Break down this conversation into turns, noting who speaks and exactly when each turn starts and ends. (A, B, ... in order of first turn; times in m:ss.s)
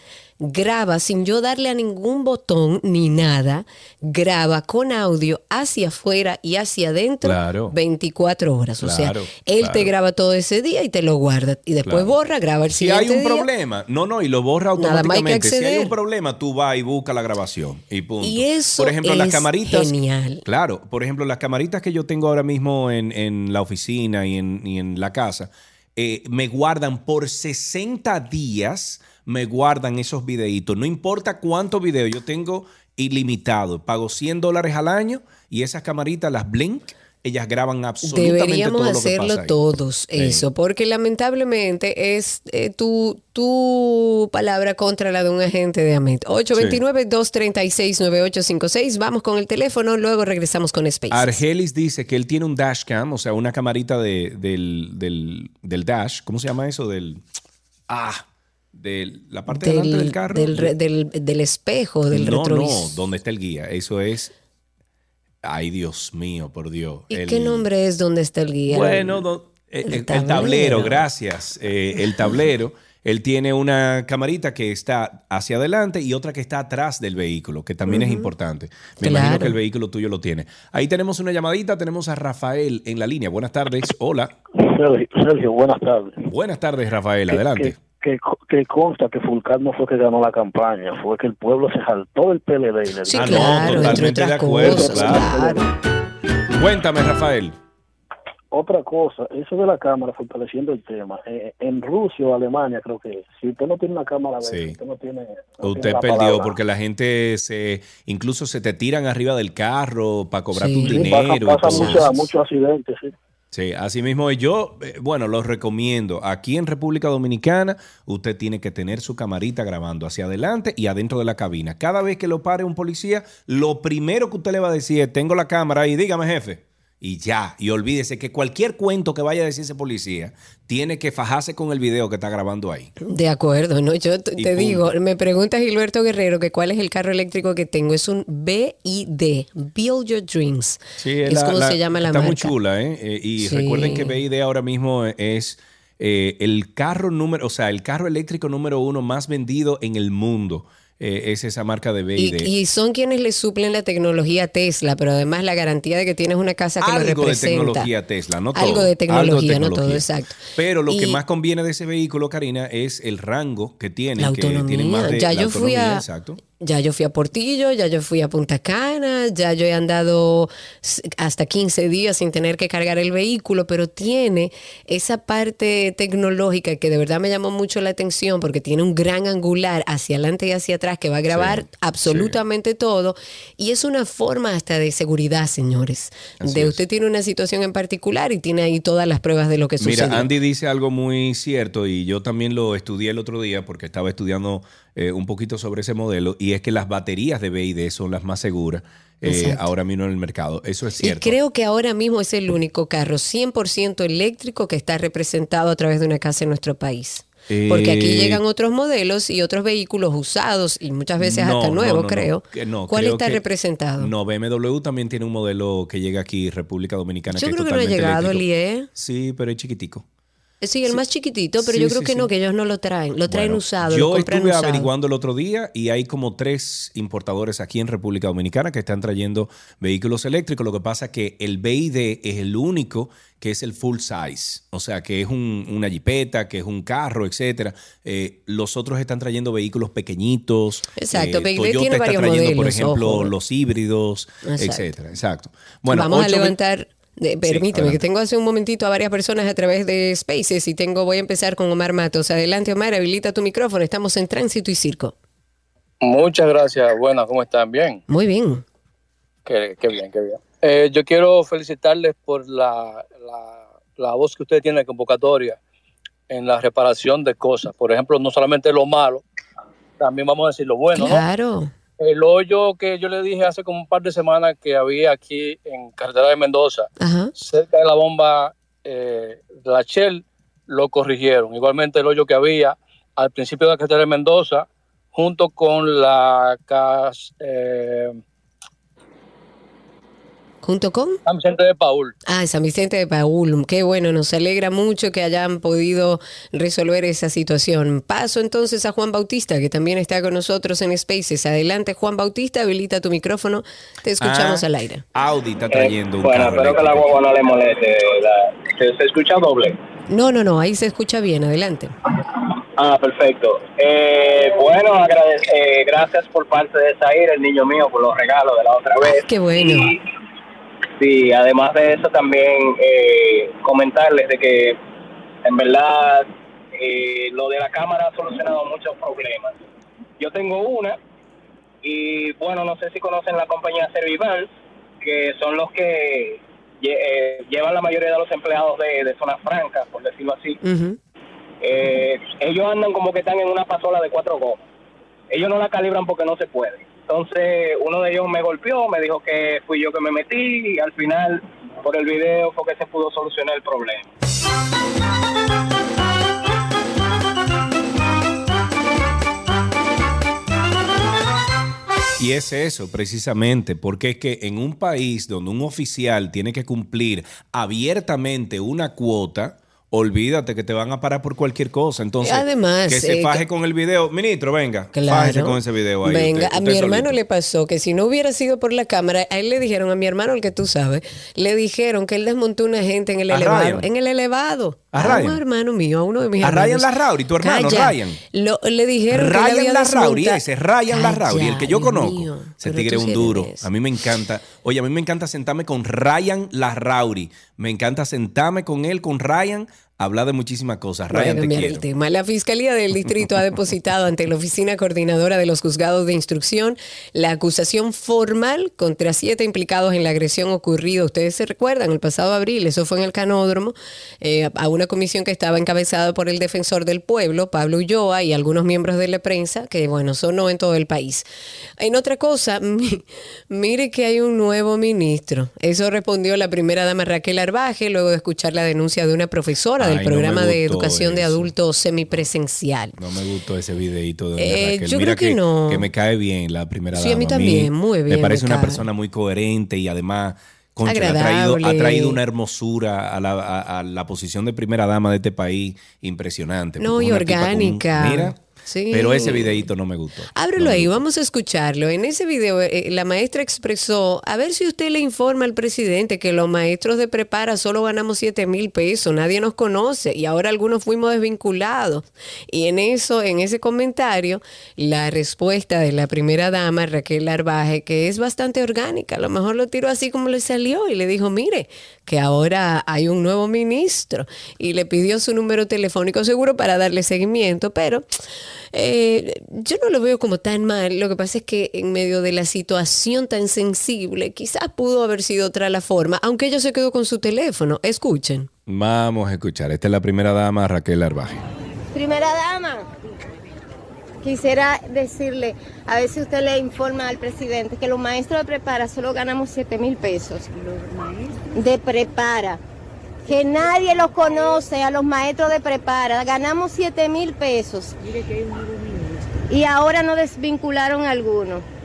0:00.4-0:13.5 A
0:07.2-0:07.7 B
0:08.8-0:09.9 B
0:11.8-0:12.1 B
0:12.7-0:39.6 B
0:14.8-0:15.9 A
0:18.2-0:20.4 A
0:38.0-0:51.4 A
0:40.2-0:40.4 B
0:46.5-0:46.8 B
0:51.1-0:57.2 B
0:57.9-1:00.7 B
0:59.5-1:03.0 A
1:02.1-1:04.3 B
1:05.4-1:07.6 B
1:07.1-1:09.2 A
1:08.7-1:24.3 B
1:09.8-1:11.0 A
1:17.9-1:18.3 A
1:19.0-1:19.6 A
1:24.6-1:26.3 C
1:26.3-1:27.8 B
1:27.3-1:35.7 C
1:33.0-1:35.6 A
1:33.1-1:35.3 B
1:36.5-1:37.6 B
1:38.5-1:46.5 C
1:44.4-1:44.8 B
1:45.6-1:52.1 B
1:50.5-1:51.1 A
1:50.8-1:53.1 C
1:51.6-1:52.0 A
1:53.5-2:12.9 B
2:13.0-2:22.5 A
2:14.4-2:14.9 B
2:21.0-2:32.5 B
2:23.4-2:24.1 A
2:32.2-2:37.9 A
2:36.8-2:46.4 B
2:38.5-2:41.2 A
2:44.2-2:46.0 A
2:46.6-3:10.3 A
3:01.3-3:02.4 B
3:06.4-3:06.8 B
3:09.8-3:21.4 B
3:19.2-3:19.7 A
3:21.0-3:34.1 A
3:27.5-3:28.4 B
3:31.2-3:33.4 B
3:34.0-3:40.0 B
3:37.3-3:38.9 A
3:40.6-3:44.9 A
3:41.6-3:42.3 B
3:43.3-4:06.6 B
4:01.0-4:03.3 A
4:04.4-4:04.9 A
4:05.9-4:15.1 A
4:07.4-4:08.0 B
4:16.0-4:18.0 D
4:18.1-4:18.6 A
4:19.4-4:25.6 D
4:26.3-4:29.2 D
4:30.0-4:31.2 D
4:30.9-4:31.7 A
4:32.0-4:48.2 D
4:37.0-4:37.3 A
4:50.6-4:51.2 A
4:51.2-4:52.1 D
4:52.2-5:05.0 A
5:04.2-5:07.1 B
5:05.7-5:09.8 E
5:10.1-5:11.9 A
5:12.7-5:20.0 E
5:19.0-5:19.9 A
5:21.0-5:24.8 E
5:25.4-5:29.5 E
5:30.2-5:31.0 E
5:31.8-5:34.5 E
5:35.0-5:40.6 E
5:40.6-5:41.0 A
5:41.6-5:44.6 E
5:45.3-5:54.1 E
6:02.2-6:17.2 B
6:12.2-6:13.4 A
6:14.9-6:26.9 A
6:23.3-6:23.9 B
6:24.9-6:25.4 B
6:26.4-6:28.2 B
6:27.4-6:33.7 A
6:29.1-6:41.8 B
6:41.1-7:01.3 A
7:01.8-7:13.0 A
7:09.8-7:11.5 B
7:13.0-7:28.4 B
7:14.4-7:15.9 A
7:16.9-7:18.8 A
7:20.8-7:22.2 A
7:26.8-7:29.7 A
7:28.9-7:31.0 B
7:30.3-7:58.0 A
7:58.7-8:08.5 A
8:08.7-8:11.4 B
8:11.9-8:12.9 F
8:14.2-8:22.6 F
8:23.2-8:28.0 F
8:29.5-8:31.6 F